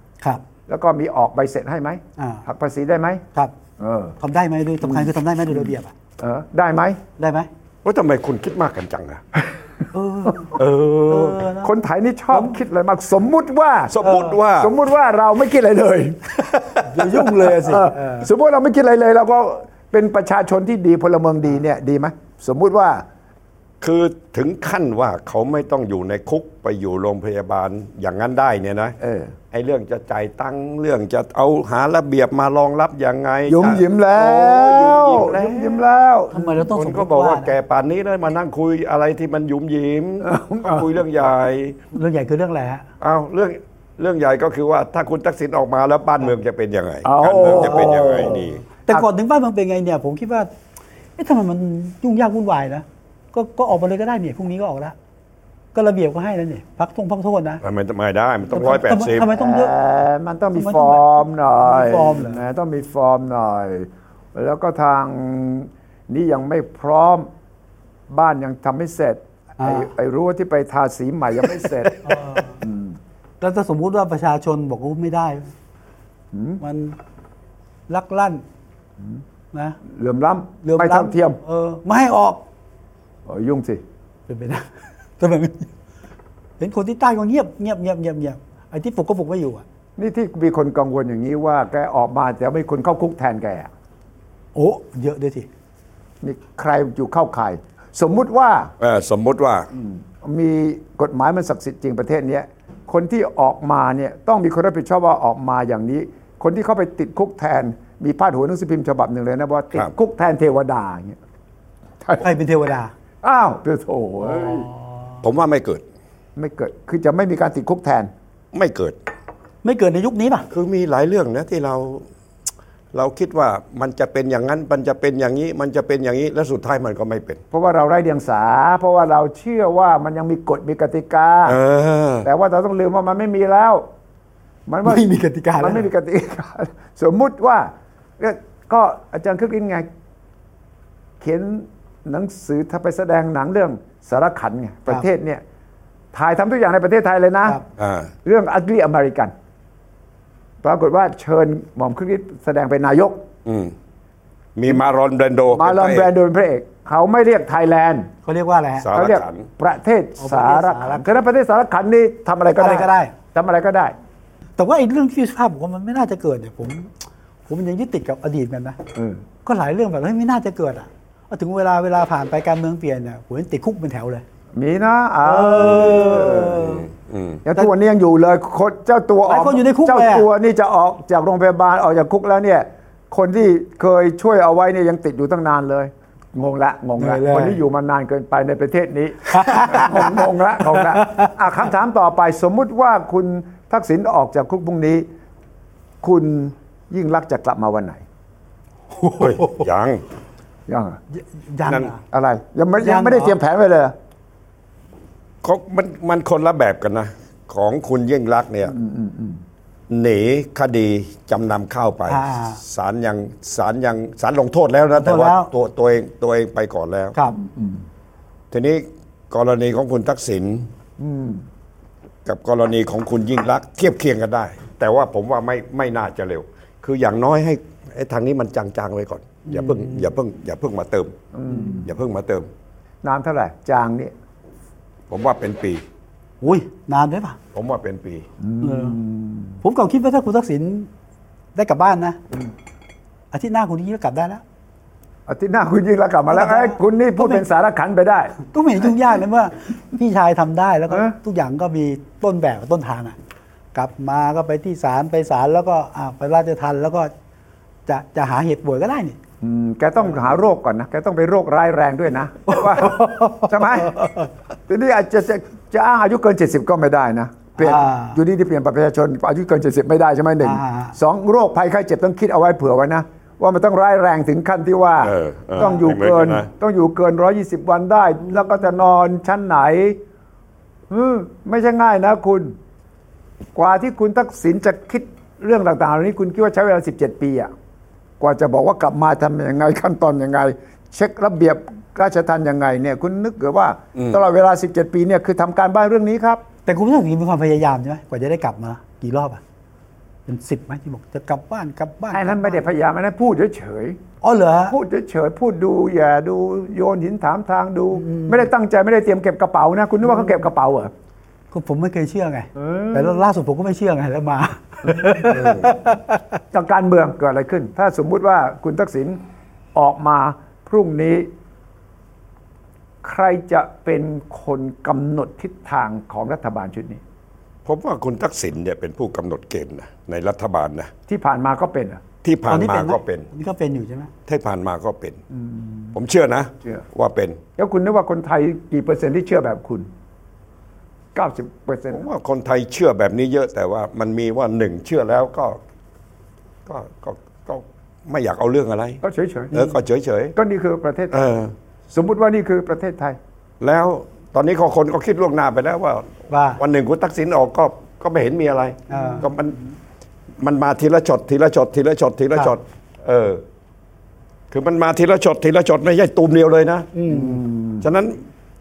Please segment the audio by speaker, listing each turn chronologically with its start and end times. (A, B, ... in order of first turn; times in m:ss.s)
0:00.7-0:03.2 A
0:02.2-0:02.4 B
0:03.8-0:04.2 A
0:04.2-0:05.9 B
0:04.8-0:07.0 A
0:07.2-0:07.5 B
0:07.8-0:09.2 C
0:09.9-0:11.7 B
0:10.5-0:11.4 C
0:11.6-0:14.0 A
0:12.3-0:12.6 B
0:13.9-0:14.7 C
0:14.0-0:14.4 B
0:14.6-0:16.4 A
0:16.5-0:16.8 C
0:16.8-0:18.3 B
0:17.2-0:23.0 A
0:23.8-0:29.0 C
0:29.0-0:29.4 A
0:29.5-0:35.8 C
0:33.5-0:36.6 A
0:36.3-0:37.5 B
0:36.7-0:41.8 C
0:40.2-0:40.9 A
0:41.9-0:42.8 B
0:43.0-0:48.6 C
0:47.0-0:49.1 A
0:47.3-0:50.5 B
0:51.2-0:54.9 B
0:55.7-0:57.6 B
0:57.6-0:59.3 C
0:58.5-0:59.7 B
0:59.3-1:07.3 A
1:00.5-1:02.4 B
1:08.1-1:13.0 A
1:09.6-1:09.9 B
1:12.0-1:12.6 B
1:13.4-1:15.5 B
1:16.3-1:16.6 A
1:16.6-1:17.0 B
1:17.9-1:18.4 B
1:19.5-1:19.8 B
1:19.8-1:21.4 A
1:20.6-1:22.4 B
1:23.2-1:23.8 A
1:24.3-1:25.7 B
1:26.6-1:29.6 B
1:30.0-1:33.7 A
1:34.5-1:35.5 B
1:36.2-1:38.7 A
1:38.8-1:39.7 C
1:39.7-1:51.2 A
1:52.2-1:52.9 B
1:53.2-1:54.7 A
1:54.3-1:54.6 B
1:55.2-1:55.8 C
1:56.4-1:58.1 A
1:58.5-1:59.0 C
1:59.6-2:00.5 B
2:00.5-2:02.1 C
2:02.9-2:07.4 C
2:07.5-2:11.6 A
2:11.4-2:12.3 C
2:12.2-2:13.9 A
2:14.7-2:15.1 A
2:14.8-2:15.9 B
2:15.6-2:19.9 A
2:21.2-2:25.4 A
2:26.1-2:27.6 A
2:27.8-2:28.1 C
2:28.2-2:29.3 A
2:30.6-2:33.2 A
2:33.4-2:33.7 C
2:34.6-2:36.1 C
2:35.5-2:38.1 A
2:38.2-2:38.9 B
2:38.8-2:39.5 C
2:38.9-2:43.9 A
2:40.2-2:41.0 B
2:42.6-2:43.1 B
2:44.6-2:46.9 B
2:47.5-2:48.8 B
2:48.9-2:49.2 A
2:49.4-2:54.2 B
2:54.5-2:56.8 A
2:55.2-2:56.8 B
2:55.6-2:57.4 C
2:57.4-3:15.1 A
2:59.2-3:00.3 B
3:07.0-3:07.6 B
3:09.3-3:11.3 B
3:16.0-3:18.0 A
3:19.0-3:19.6 B
3:19.2-3:20.0 C
3:20.7-3:21.0 A
3:21.2-3:22.0 B
3:21.7-3:21.9 C
3:22.1-3:23.9 A
3:22.8-3:23.3 B
3:25.4-3:28.7 C
3:28.6-3:29.4 A
3:29.9-3:37.2 C
3:32.1-3:32.6 B
3:35.0-3:35.5 B
3:37.3-3:37.8 A
3:38.5-3:40.7 C
3:41.0-3:41.4 A
3:42.2-3:51.2 C
3:49.4-3:50.1 B
3:51.3-3:51.9 A
3:51.7-3:52.5 C
3:53.0-3:54.1 A
3:55.1-3:55.8 C
3:56.4-3:57.4 B
3:57.5-3:58.3 C
3:58.4-3:59.6 A
3:58.6-3:59.0 B
3:59.6-4:00.9 B
4:01.5-4:02.2 B
4:03.3-4:04.4 B
4:05.3-4:08.4 A
4:06.3-4:07.4 B
4:08.4-4:13.2 B
4:10.9-4:11.1 A
4:13.7-4:17.1 B
4:17.9-4:19.2 B
4:19.4-4:24.1 A
4:22.5-4:24.2 B
4:24.7-4:40.0 A
4:27.6-4:28.2 B
4:30.4-4:30.9 B
4:35.0-4:36.5 C
4:40.9-4:42.5 A
4:43.5-4:47.5 A
4:48.2-4:56.4 A
4:56.6-4:59.4 B
5:00.3-5:02.6 B
5:02.1-5:04.0 A
5:04.2-5:04.8 B
5:04.7-5:10.9 A
5:08.0-5:08.5 B
5:11.5-5:16.4 B
5:12.5-5:13.2 A
5:15.3-5:15.7 C
5:16.5-5:19.2 A
5:19.7-5:21.3 A
5:23.0-5:27.0 A
5:27.6-5:30.9 C
5:31.1-5:32.0 A
5:32.2-5:33.2 C
5:32.5-5:34.1 B
5:34.3-5:35.2 C
5:35.3-5:36.0 A
5:35.9-5:37.4 C
5:37.6-5:39.9 A
5:41.1-5:42.1 A
5:41.9-5:45.6 C
5:46.6-5:49.0 C
5:49.0-5:49.5 A
5:49.5-5:50.4 C
5:50.4-5:51.2 A
5:51.1-5:51.5 C
5:51.9-5:53.2 A
5:53.6-5:59.6 C
5:56.3-5:56.6 B
5:58.9-5:59.3 B
6:00.4-6:03.4 C
6:04.5-6:06.9 C
6:06.9-6:07.4 B
6:07.1-6:07.9 A
6:07.8-6:08.2 C